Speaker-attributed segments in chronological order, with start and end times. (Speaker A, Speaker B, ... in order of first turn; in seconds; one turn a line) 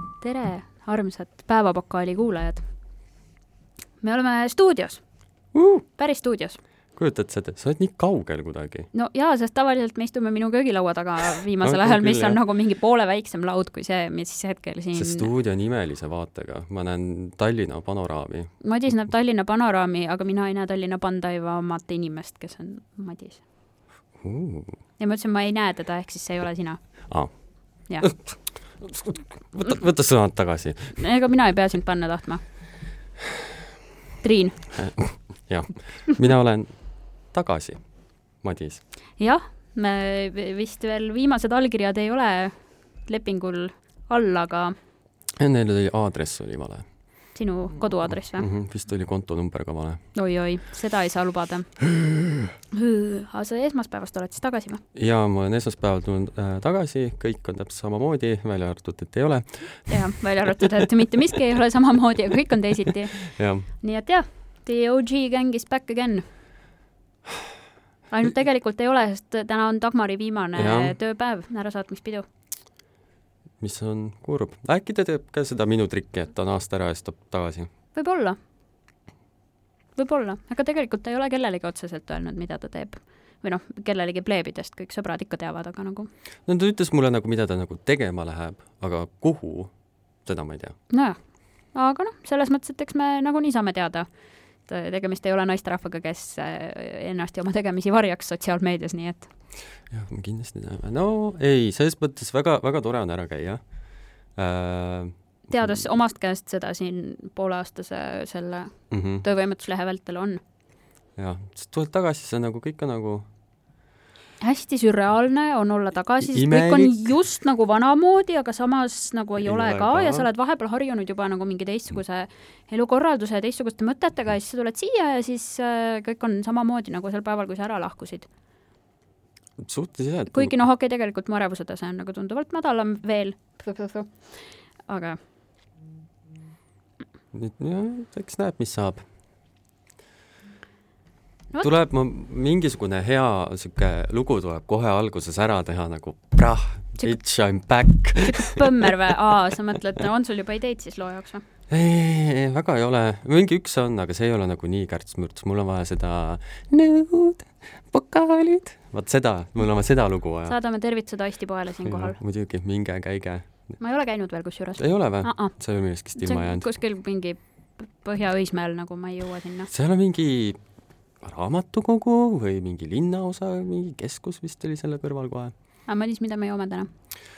Speaker A: 0.2-2.6
Speaker A: 4.0-5.0
Speaker B: 5.5-5.8
Speaker A: 6.0-6.6
Speaker B: 7.0-8.9
Speaker A: 8.9-15.3
Speaker B: 11.6-12.4
Speaker B: 14.9-18.5
Speaker A: 18.6-23.4
Speaker B: 24.2-24.7
Speaker A: 25.0-26.8
Speaker B: 28.0-31.0
Speaker A: 31.0-32.4
Speaker A: 34.2-34.6
Speaker B: 34.7-36.8
Speaker B: 37.3-37.8
Speaker B: 38.4-38.8
Speaker A: 39.2-42.5
Speaker A: 43.0-44.8
Speaker B: 45.4-46.8
Speaker A: 47.3-48.5
Speaker B: 48.4-50.0
Speaker A: 50.1-51.7
Speaker A: 52.7-54.8
Speaker B: 54.9-59.9
Speaker A: 59.9-66.2
Speaker B: 63.2-63.6
Speaker A: 68.1-72.2
Speaker B: 70.6-71.0
Speaker B: 73.6-77.7
Speaker A: 77.9-78.4
Speaker A: 80.0-86.1
Speaker B: 86.5-89.7
Speaker B: 90.2-90.8
Speaker A: 90.9-91.2
Speaker A: 91.7-94.1
Speaker A: 94.7-99.3
Speaker B: 99.9-103.6
Speaker B: 104.3-105.8
Speaker A: 105.5-110.4
Speaker B: 108.9-109.2
Speaker B: 111.2-113.3
Speaker A: 114.4-128.3
Speaker B: 116.2-117.1
Speaker B: 119.4-120.2
Speaker B: 129.6-130.6
Speaker A: 130.3-134.3
Speaker A: 134.9-135.2
Speaker B: 137.3-139.0
Speaker B: 141.6-148.9
Speaker A: 148.2-151.4
Speaker B: 151.7-160.6
Speaker A: 160.5-162.2
Speaker B: 161.8-163.7
Speaker A: 163.8-165.5
Speaker B: 164.8-166.6
Speaker A: 166.2-169.7
Speaker B: 169.7-170.6
Speaker B: 171.2-175.5
Speaker A: 175.9-176.9